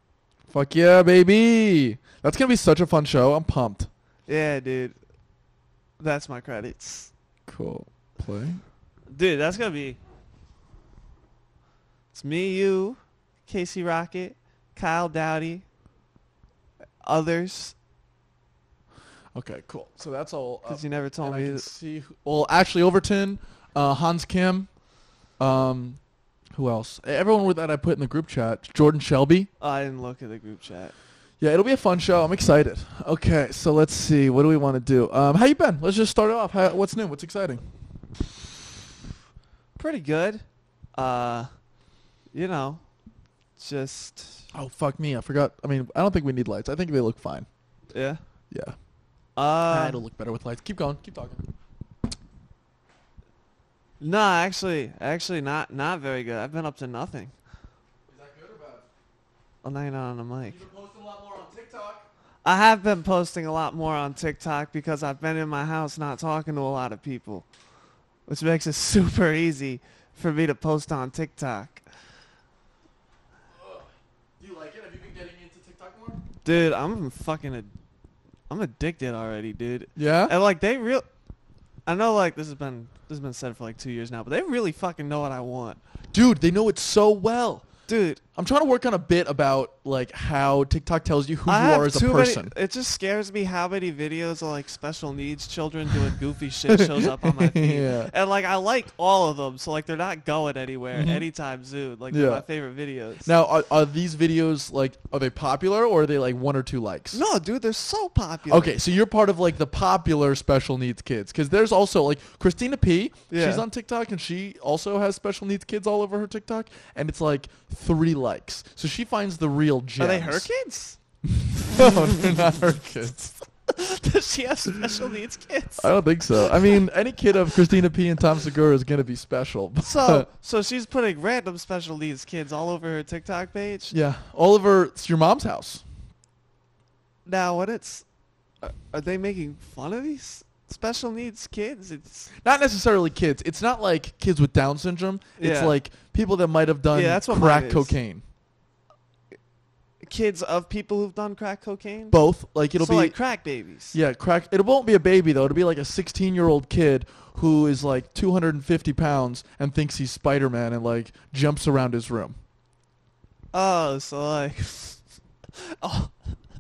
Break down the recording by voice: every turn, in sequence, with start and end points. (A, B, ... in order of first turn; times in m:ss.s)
0:00.5-0:03.9 A
0:04.3-0:05.0 B
0:06.0-0:07.1 B
0:07.5-0:08.6 A
0:09.1-0:10.0 B
0:12.1-0:15.6 B
0:17.0-0:17.8 B
0:19.4-0:24.7 A
0:20.7-0:21.7 B
0:25.4-0:26.0 A
0:26.5-0:29.5 A
0:29.6-0:30.9 B
0:31.4-0:37.6 A
0:39.8-0:41.5 B
0:42.3-0:42.8 B
0:43.6-0:44.5 B
0:44.5-0:47.5 A
0:47.9-0:48.2 B
0:48.5-0:48.8 A
0:49.4-0:50.0 B
0:49.7-0:51.4 A
0:54.0-0:57.3 B
0:58.1-0:58.8 A
0:59.6-1:00.6 B
1:00.5-1:02.1 A
1:02.4-1:07.5 B
1:08.3-1:11.8 B
1:13.5-1:16.2 A
1:16.4-1:17.7 B
1:18.5-1:21.1 B
1:20.0-1:20.4 A
1:21.9-1:25.8 B
1:26.1-1:27.7 A
1:27.9-1:28.2 B
1:28.4-1:32.5 A
1:31.5-1:43.3 B
1:36.7-1:38.1 A
1:40.9-1:41.3 A
1:42.1-1:42.4 A
1:43.2-1:47.2 A
1:47.1-1:48.8 B
1:48.5-2:00.5 A
1:53.3-1:53.6 B
2:00.0-2:01.0 B
2:01.3-2:03.3 A
2:01.8-2:02.1 B
2:03.7-2:06.7 B
2:05.8-2:10.3 A
2:09.8-2:13.9 B
2:13.9-2:15.8 A
2:17.2-2:18.1 B
2:18.6-2:22.3 B
2:22.4-2:28.2 A
2:25.4-2:25.7 B
2:26.9-2:28.0 B
2:30.0-2:32.2 B
2:32.1-2:33.2 A
2:32.8-2:34.0 B
2:33.9-2:42.4 A
2:43.5-2:45.0 B
2:45.6-2:46.1 B